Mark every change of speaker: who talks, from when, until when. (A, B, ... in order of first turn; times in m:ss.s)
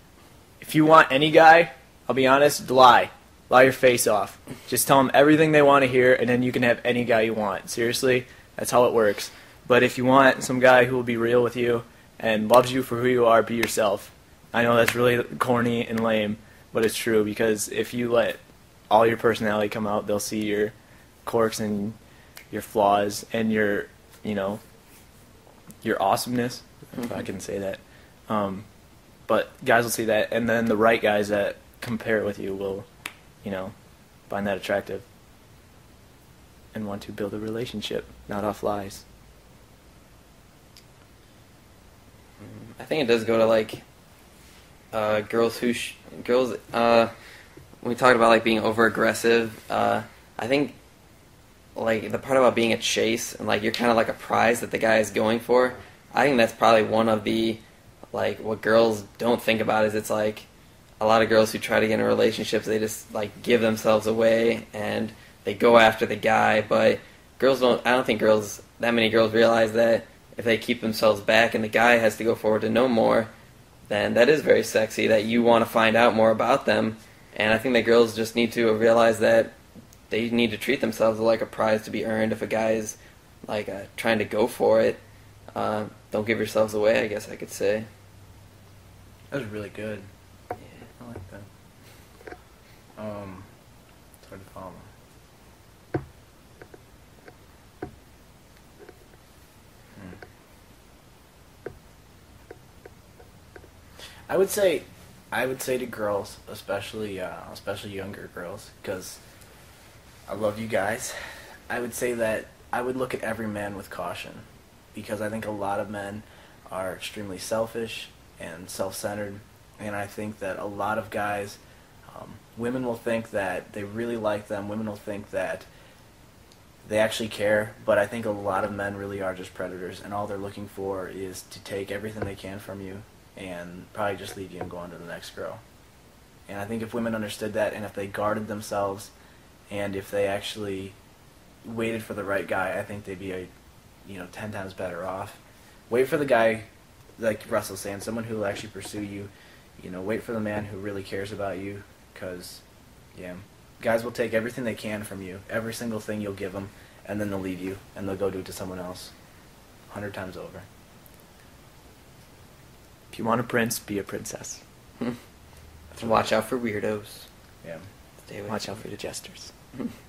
0:00.6-0:22.0 A
0:22.5-0:24.6 A
0:25.8-0:28.6 A
0:29.3-0:32.9 A
0:33.4-0:33.7 A
0:34.3-0:35.0 A
0:36.7-0:39.0 A
0:42.4-0:43.8 B
0:44.9-0:47.1 B
0:47.8-0:50.8 B
0:51.7-1:00.5 B
1:01.0-1:13.3 B
1:13.9-1:19.6 B
1:20.1-1:25.0 B
1:25.5-1:27.9 B
1:29.3-1:30.1 C
1:31.0-1:31.5 C
1:33.0-1:33.5 C
1:34.2-1:34.9 C
1:44.3-1:49.2 C
1:50.3-1:51.2 C
1:51.7-2:05.7 C
2:06.8-2:15.6 C
2:16.5-2:19.1 C
2:19.7-2:21.0 C
2:21.6-2:23.5 C
2:24.0-2:32.6 C
2:33.1-2:39.1 C
2:39.9-2:40.6 C
2:43.1-2:44.6 A
2:45.9-2:46.4 C
2:46.0-2:47.3 B
2:48.2-2:48.8 B
2:48.5-2:49.5 A